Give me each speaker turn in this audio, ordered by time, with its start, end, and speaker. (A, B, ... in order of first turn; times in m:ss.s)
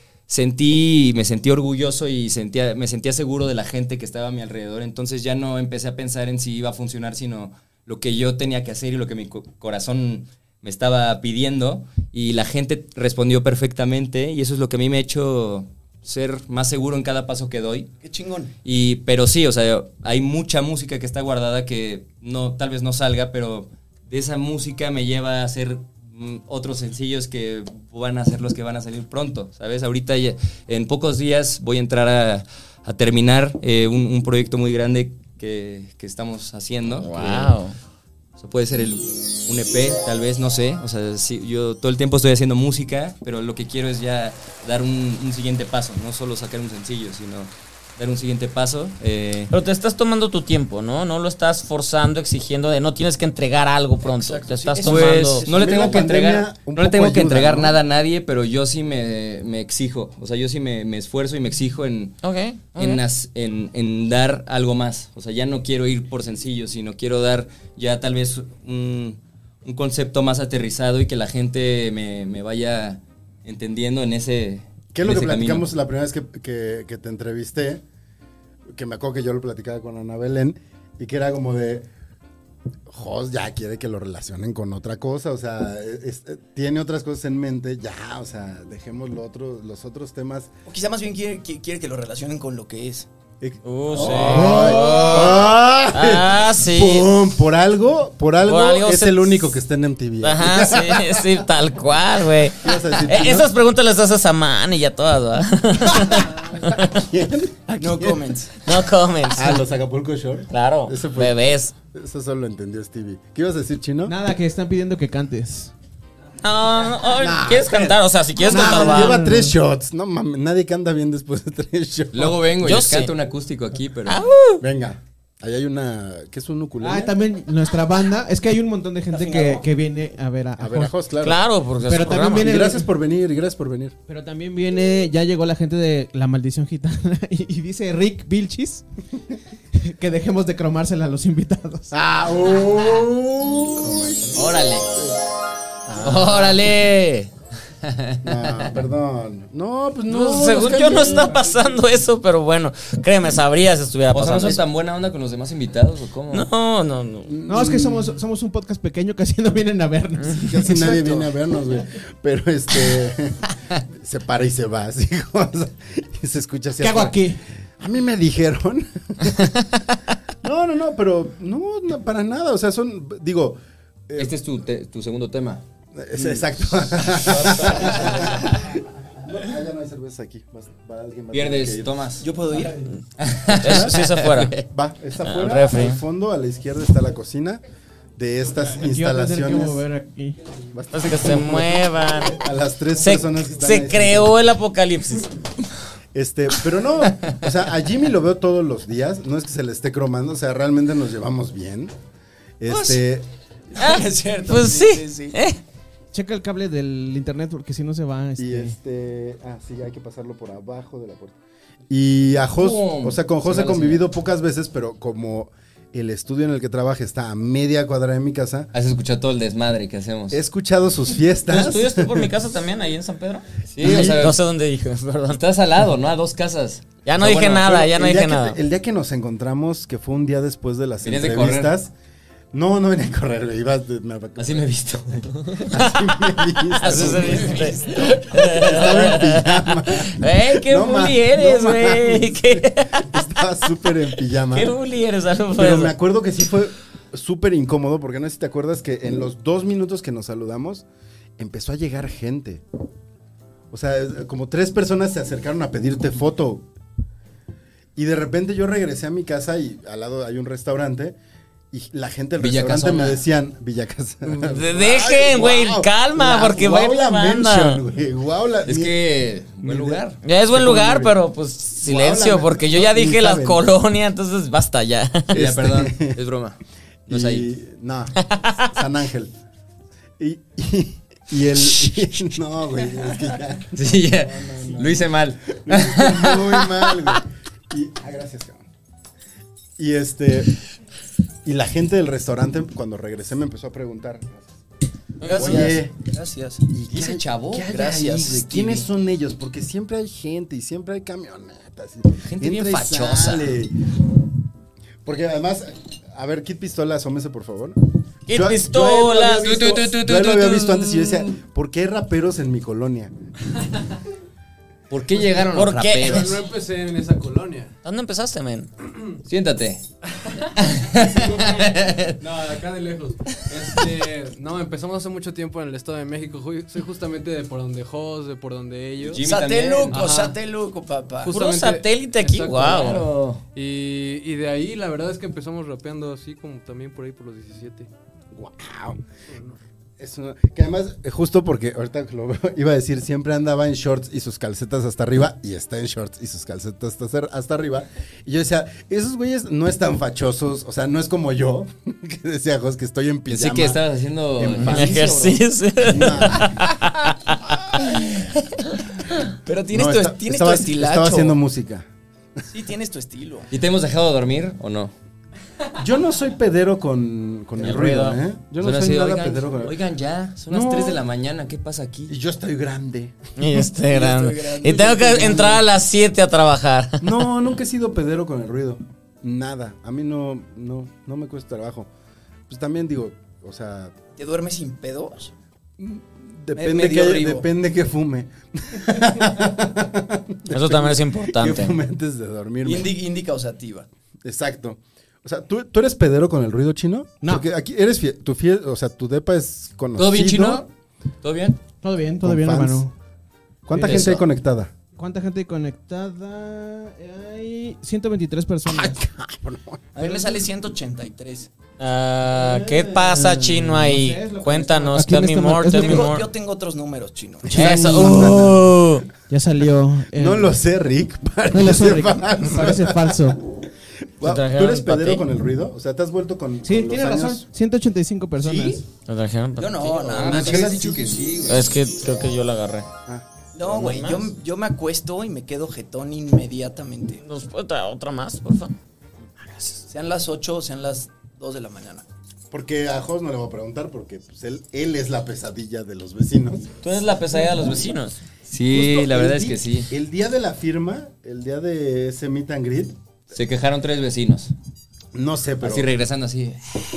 0:00.3-0:17.9 A
0:18.0-0:18.5 B
0:18.6-0:37.5 A
0:37.0-0:37.8 C
0:38.4-0:49.5 A
0:49.5-0:55.4 C
0:54.0-0:56.0 B
0:54.8-1:02.2 A
0:55.5-0:57.8 D
1:02.2-1:03.0 C
1:02.7-1:15.7 A
1:14.9-1:17.8 D
1:18.7-1:21.9 D
1:22.9-1:30.5 D
1:30.7-1:33.1 B
1:33.4-1:41.4 D
1:33.6-1:37.1 C
1:38.4-1:39.5 C
1:40.2-1:46.9 C
1:42.5-1:43.5 D
1:46.6-1:48.2 D
1:47.7-1:48.5 B
1:48.6-1:49.6 C
1:49.3-1:54.2 D
1:50.5-1:51.7 C
1:54.0-1:55.7 E
1:56.4-1:59.2 C
1:57.2-2:02.4 D
1:58.5-1:59.5 E
2:02.1-2:04.2 A
2:02.6-2:03.1 C
2:04.1-2:04.6 C
2:04.6-2:07.1 D
2:06.8-2:10.9 E
2:09.1-2:09.6 B
2:10.6-2:11.4 D
2:11.2-2:12.6 C
2:11.8-2:12.9 E
2:12.1-2:13.9 D
2:14.1-2:18.8 E
2:19.8-2:21.9 E
2:21.9-2:25.2 D
2:24.3-2:24.9 A
2:25.8-2:26.8 D
2:26.0-2:27.3 A
2:27.8-2:28.7 A
2:28.2-2:31.5 D
2:30.1-2:34.6 C
2:34.1-2:36.5 A
2:36.3-2:37.4 C
2:37.2-2:38.2 D
2:37.5-2:40.6 E
2:40.4-2:47.2 D
2:40.7-2:41.3 B
2:46.8-2:47.4 E
2:47.8-2:49.6 D
2:50.4-2:54.3 D
2:54.2-2:55.6 A
2:55.9-3:02.0 D
2:57.0-2:58.5 A
3:01.3-3:02.2 A
3:02.2-3:02.8 B
3:03.2-3:04.5 A
3:03.5-3:07.6 D
3:03.6-3:04.6 C
3:05.2-3:06.0 C
3:08.2-3:09.8 D
3:08.8-3:10.4 E
3:10.7-3:14.4 D
3:10.9-3:12.4 C
3:13.0-3:15.3 C
3:16.1-3:21.9 D
3:22.6-3:23.3 D
3:22.7-3:23.0 B
3:23.7-3:25.4 B
3:23.8-3:25.6 C
3:26.1-3:28.7 E
3:28.4-3:31.4 D
3:31.9-3:38.7 D
3:32.5-3:34.0 A
3:38.7-3:40.4 A
3:40.3-3:42.3 D
3:41.5-3:45.4 C
3:43.7-3:44.4 A
3:43.8-3:44.3 D
3:45.3-3:47.7 A
3:47.0-3:48.6 C
3:47.2-3:51.9 D
3:51.0-3:51.7 A
3:52.5-3:54.6 D
3:54.4-3:55.7 A
3:55.6-4:04.8 D
3:55.7-4:03.2 C
3:56.9-3:57.2 A
4:04.5-4:05.9 C
4:05.5-4:10.8 D
4:11.4-4:12.6 D
4:13.7-4:16.6 D
4:18.0-4:21.2 D
4:21.7-4:29.0 D
4:22.4-4:23.2 A
4:24.4-4:27.8 C
4:28.6-4:30.2 A
4:29.6-4:31.2 D
4:30.2-4:35.3 C
4:31.8-4:33.7 D
4:35.3-4:37.5 A
4:35.3-4:36.2 D
4:37.1-4:39.3 D
4:38.3-4:38.7 C
4:40.2-4:48.6 D
4:43.7-4:47.2 A
4:49.8-4:50.6 D
4:51.4-4:54.6 D
4:55.2-4:55.7 C
4:55.2-4:56.7 B
4:55.3-4:55.9 D
4:56.7-5:03.8 D
4:56.9-4:57.9 A
4:57.6-4:58.8 B
5:02.2-5:03.6 A
5:05.0-5:13.1 D
5:08.3-5:09.7 C
5:09.4-5:11.4 A
5:14.9-5:16.4 A
5:15.5-5:16.4 C
5:16.0-5:17.7 F
5:17.8-5:18.7 C
5:19.2-5:19.8 A
5:20.6-5:22.2 A
5:21.1-5:29.2 F
5:29.0-5:30.0 A
5:29.2-5:31.3 B
5:29.9-5:30.4 F
5:31.2-5:33.0 C
5:31.2-5:37.9 F
5:32.6-5:33.4 A
5:38.3-5:39.1 D
5:39.3-5:39.6 F
5:40.0-5:53.8 D
5:53.3-5:55.2 A
5:54.3-5:56.6 D
5:54.6-5:57.8 C
5:54.7-5:55.4 B
5:57.7-5:58.1 D
5:59.4-6:01.4 B
5:59.7-6:01.9 D
6:02.5-6:03.5 B
6:03.5-6:04.9 A
6:05.7-6:09.8 D
6:07.6-6:08.2 C
6:08.6-6:12.1 A
6:10.5-6:11.0 D
6:12.1-6:13.1 D
6:13.4-6:17.2 C
6:13.9-6:15.6 B
6:17.0-6:21.9 D
6:22.5-6:23.9 D
6:24.2-6:25.3 B
6:25.8-6:32.9 D
6:26.5-6:27.5 B
6:30.5-6:31.7 C
6:32.6-6:33.9 B
6:34.2-6:40.6 D
6:40.0-6:40.7 A
6:41.2-6:41.6 A
6:41.8-6:42.9 E
6:42.2-6:42.8 D
6:43.7-6:44.7 D
6:43.7-6:44.1 E
6:43.8-6:44.2 A
6:44.9-6:49.0 E
6:48.6-6:49.8 D
6:49.9-6:51.5 B
6:51.8-6:56.2 C
6:52.3-6:56.1 E
6:55.6-6:57.6 B
6:57.5-6:58.6 D
6:57.5-6:58.6 E
6:57.5-6:59.1 C
6:59.3-7:00.5 E
7:00.1-7:03.6 D
7:01.5-7:03.4 E
7:04.2-7:07.4 D
7:04.2-7:05.2 C
7:06.6-7:08.8 E
7:09.0-7:10.6 C
7:09.6-7:11.0 B
7:10.1-7:11.7 A
7:10.2-7:11.0 D
7:11.4-7:12.9 C
7:13.5-7:17.2 B
7:13.6-7:14.3 C
7:17.2-7:18.7 C
7:19.9-7:22.0 B
7:22.5-7:26.8 D
7:26.8-7:28.2 C
7:28.5-7:29.9 A
7:28.7-7:33.0 D
7:33.3-7:34.5 A
7:35.1-7:35.9 D
7:35.6-7:36.6 A